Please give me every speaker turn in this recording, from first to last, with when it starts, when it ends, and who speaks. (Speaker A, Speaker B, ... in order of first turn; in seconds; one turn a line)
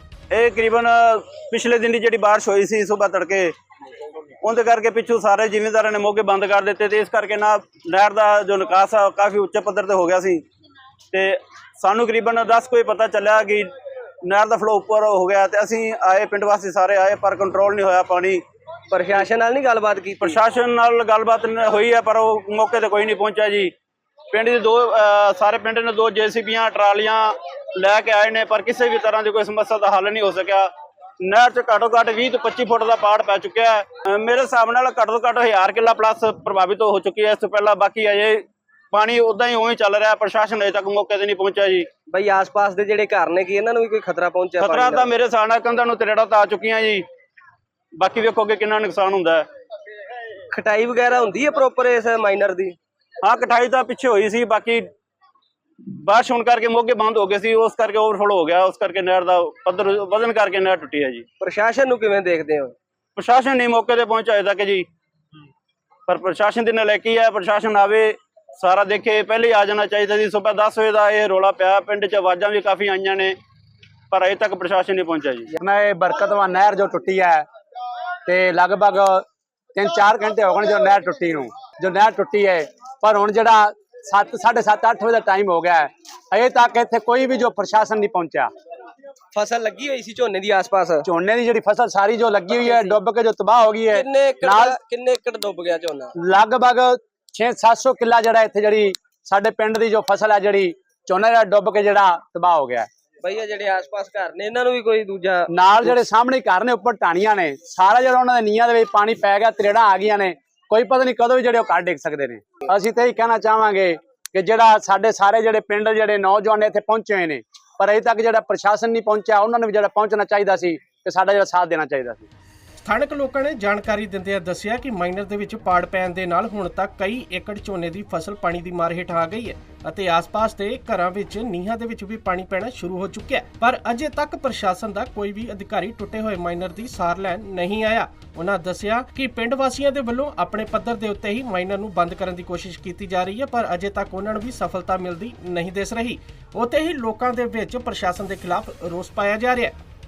Speaker A: 0.3-3.5
Speaker A: 4.4-10.4
Speaker A: 11.1-13.7
Speaker A: 14.2-18.4
Speaker B: 18.9-20.4
Speaker A: 20.2-23.7
Speaker A: 24.3-30.7
Speaker A: 31.2-41.9
Speaker B: 42.1-45.1
Speaker A: 44.6-47.0
Speaker A: 48.0-49.5
Speaker B: 50.5-52.8
Speaker A: 53.2-54.9
Speaker A: 55.9-61.2
Speaker B: 61.4-62.7
Speaker A: 63.2-64.9
Speaker A: 66.1-73.4
Speaker A: 74.1-75.6
Speaker C: 75.6-77.5
Speaker C: 78.3-88.5
Speaker B: 89.3-91.1
Speaker C: 91.0-94.8
Speaker B: 92.6-93.0
Speaker B: 93.9-96.1
Speaker C: 96.2-102.9
Speaker B: 103.2-105.9
Speaker C: 105.5-122.3
Speaker D: 122.8-149.8